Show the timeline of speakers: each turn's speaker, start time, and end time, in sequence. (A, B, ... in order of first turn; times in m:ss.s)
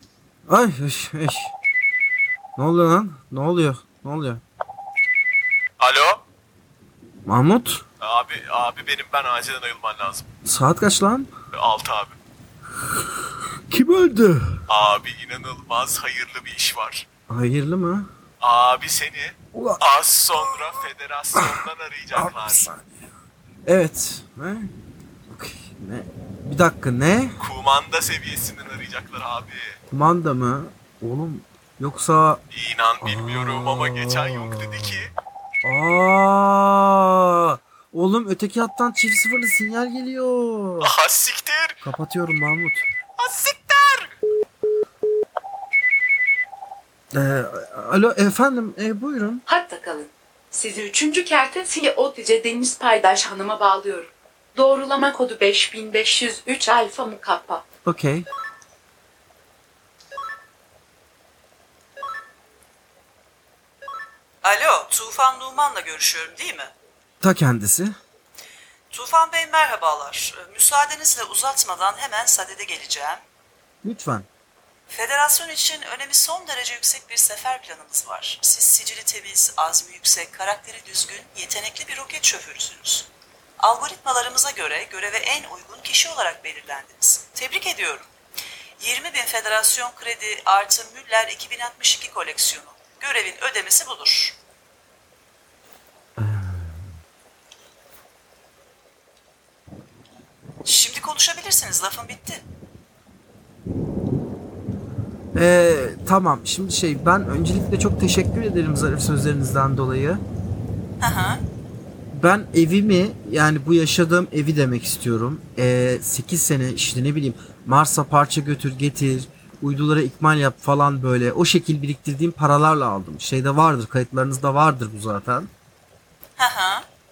0:00.5-0:01.5 A
0:02.6-0:04.4 A
0:05.8-0:06.2 B
0:07.2-0:07.8 A
0:08.0-0:10.2 B
0:10.4-0:11.3 A
0:11.5-0:12.2 B
0:13.7-0:14.6 A
0:14.7-0:17.0 B
0:17.3-0:18.1 A
0:18.4-0:22.7 B
0:19.5-0:20.8 A
0:21.3-0:22.8 A
0:23.6-0:24.7 A
0:25.3-0:27.4 A
0:27.4-0:29.8 B
0:29.9-0:32.4 A
0:32.5-0:35.1 B
0:33.0-0:34.9 A
0:35.6-0:40.9 A
0:40.8-0:41.8 B
0:41.8-0:42.9 A
0:43.2-0:44.1 B
0:47.1-0:49.4 A
0:49.5-0:57.6 C
0:57.8-0:58.2 A
1:04.4-1:06.7 D
1:07.2-1:07.9 A
1:08.9-1:13.2 D
1:13.8-1:14.3 A
1:14.9-1:23.1 D
1:23.6-1:28.1 D
1:28.8-1:34.4 D
1:36.2-1:36.9 A
1:40.6-1:42.4 D
1:45.3-1:50.2 A
1:51.0-1:51.4 D
1:52.1-2:05.5 A
2:06.4-2:06.8 D